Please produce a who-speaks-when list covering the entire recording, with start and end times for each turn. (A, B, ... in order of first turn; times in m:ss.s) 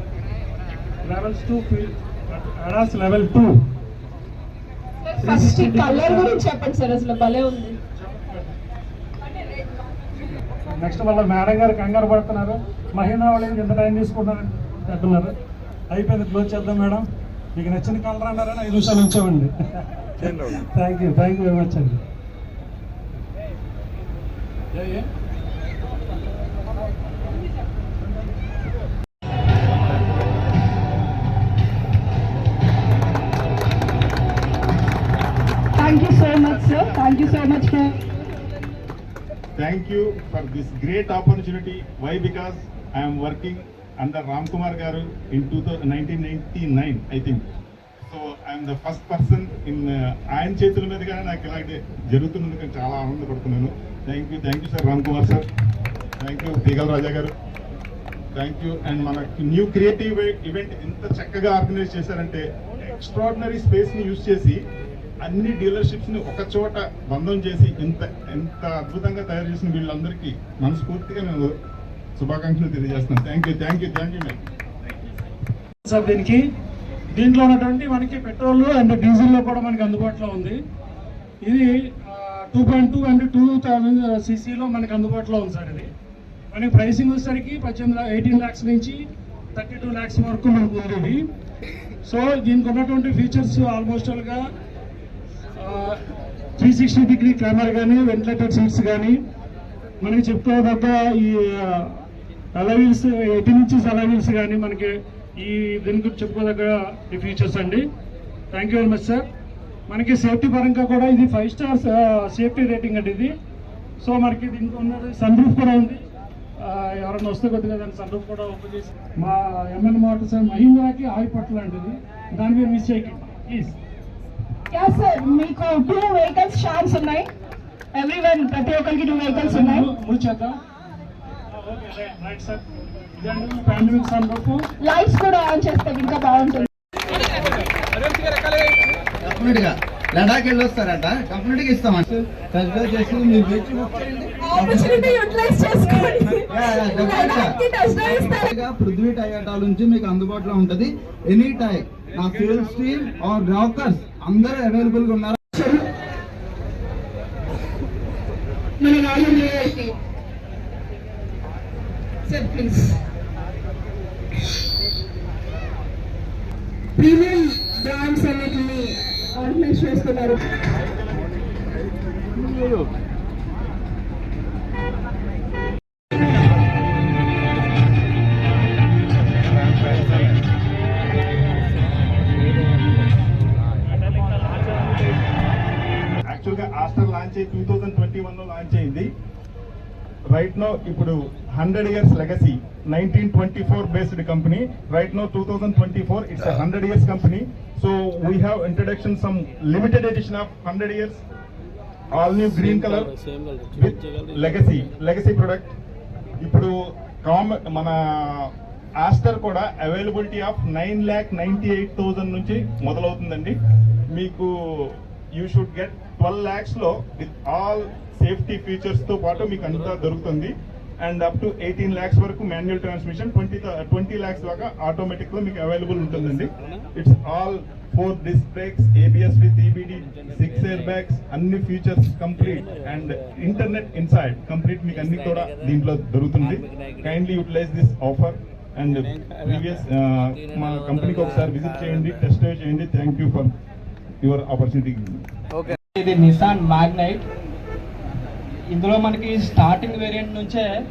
0:01.1-0:03.5 A
0:05.2-0:07.8 B
0:10.8-0:15.3 A
0:15.9-0:17.0 A
0:17.6-0:19.5 A
0:20.2-0:22.0 A
0:24.8-0:25.0 A
0:35.8-0:38.0 B
0:39.6-0:47.4 C
0:48.1-0:55.4 C
0:56.2-0:57.3 C
0:58.3-1:04.6 C
1:05.2-1:11.5 C
1:12.2-1:14.4 C
1:15.8-1:16.4 A
1:17.2-1:20.6 A
1:21.4-1:25.9 A
1:26.5-1:29.0 A
1:29.6-1:31.2 A
1:32.1-1:34.4 A
1:35.6-1:35.9 A
1:36.6-1:39.1 A
1:40.0-1:41.9 A
1:42.6-1:44.9 A
1:45.4-1:47.8 A
1:48.5-1:49.2 A
1:49.9-1:53.3 A
1:54.0-1:56.0 A
1:56.7-2:03.7 A
2:04.7-2:07.3 B
2:07.9-2:09.9 B
2:09.5-2:10.5 A
2:11.6-2:12.6 A
2:13.2-2:14.6 A
2:14.8-2:16.7 B
2:19.3-2:25.0 D
2:24.4-2:28.5 B
2:26.5-2:35.4 D
2:35.6-2:35.8 B
2:38.8-2:39.9 B
2:42.3-2:43.0 B
2:47.0-2:50.4 B
2:59.6-3:00.4 C
3:06.2-3:09.1 C
3:10.3-3:21.2 C
3:22.1-3:23.1 C
3:23.7-3:25.7 C
3:26.4-3:26.7 C
3:27.2-3:33.5 C
3:34.1-4:03.5 C
4:04.2-4:05.2 C
4:05.9-4:07.2 E
4:08.7-4:10.7 E